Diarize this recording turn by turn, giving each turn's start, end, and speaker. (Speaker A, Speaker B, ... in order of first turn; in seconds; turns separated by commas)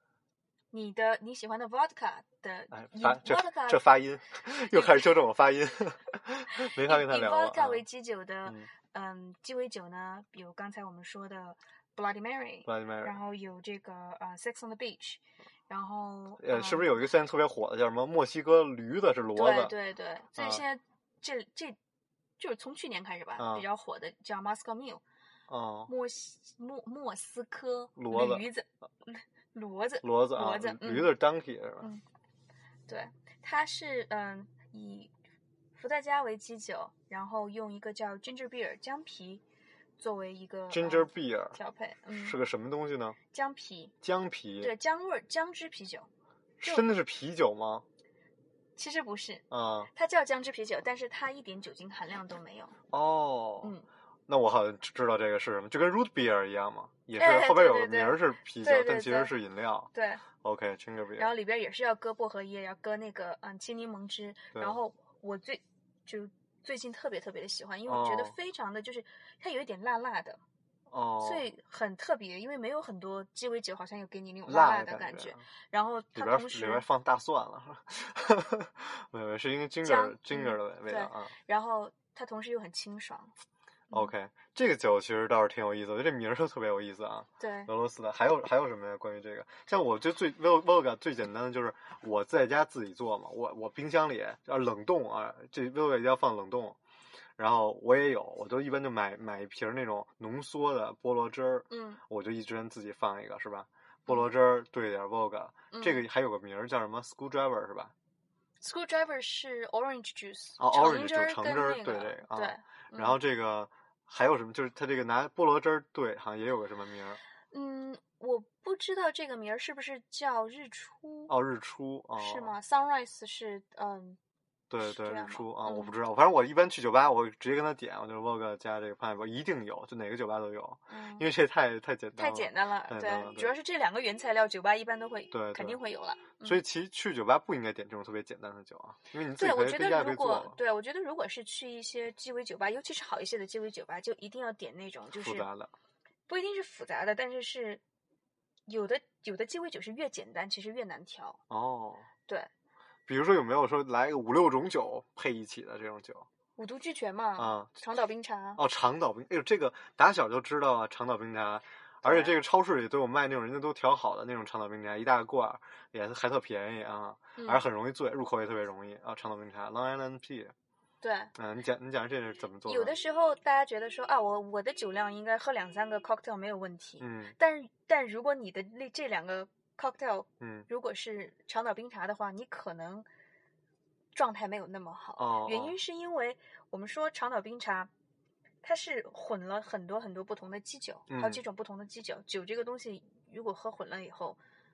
Speaker A: 0.7-3.9, Speaker B: 2.7-7.8, Speaker A: 4.7-5.1, Speaker A: 6.6-17.0, Speaker B: 12.7-13.2, Speaker B: 16.4-19.7, Speaker A: 19.3-21.8, Speaker B: 20.4-20.6, Speaker A: 22.4-25.0, Speaker B: 23.4-23.6, Speaker B: 25.5-25.9, Speaker A: 25.9-31.1, Speaker B: 27.9-28.5, Speaker B: 30.0-31.9, Speaker A: 32.9-35.1, Speaker A: 35.7-39.4, Speaker A: 40.0-42.4, Speaker B: 40.7-41.6, Speaker B: 42.1-43.2, Speaker A: 43.3-43.9, Speaker B: 44.0-44.7, Speaker A: 44.6-46.1, Speaker B: 46.6-47.8, Speaker A: 46.6-46.9, Speaker A: 48.8-52.8, Speaker B: 49.5-49.9, Speaker B: 52.9-53.8, Speaker A: 53.6-53.9, Speaker B: 54.3-61.3, Speaker A: 57.1-59.3, Speaker A: 59.9-60.2, Speaker A: 61.2-70.4, Speaker B: 67.8-68.3, Speaker B: 70.9-71.5, Speaker A: 71.2-76.8, Speaker B: 74.5-75.4, Speaker B: 76.1-81.3, Speaker A: 79.8-83.3, Speaker B: 83.9-96.8, Speaker A: 87.4-87.7, Speaker B: 97.4-107.9, Speaker A: 101.7-102.0, Speaker A: 105.7-106.0, Speaker A: 108.6-113.2, Speaker B: 110.6-117.2, Speaker A: 117.5-121.3, Speaker B: 121.3-122.5, Speaker A: 122.2-124.2, Speaker B: 124.7-133.5, Speaker A: 124.8-125.9, Speaker A: 130.9-131.3, Speaker A: 132.2-136.6, Speaker B: 135.3-135.8, Speaker B: 136.4-140.6, Speaker A: 139.3-145.5, Speaker B: 145.1-145.7, Speaker A: 146.3-147.8, Speaker A: 148.7-151.4, Speaker B: 151.5-152.1, Speaker B: 153.1-156.3, Speaker A: 156.6-158.6, Speaker B: 157.4-157.7, Speaker B: 158.6-170.5, Speaker A: 162.0-162.4, Speaker A: 167.3-167.7, Speaker A: 171.0-171.3, Speaker B: 171.3-172.9, Speaker A: 172.7-183.1, Speaker B: 177.0-177.3, Speaker B: 180.4-180.7, Speaker A: 184.1-187.9, Speaker B: 185.2-185.8, Speaker A: 188.6-194.4, Speaker B: 191.1-191.4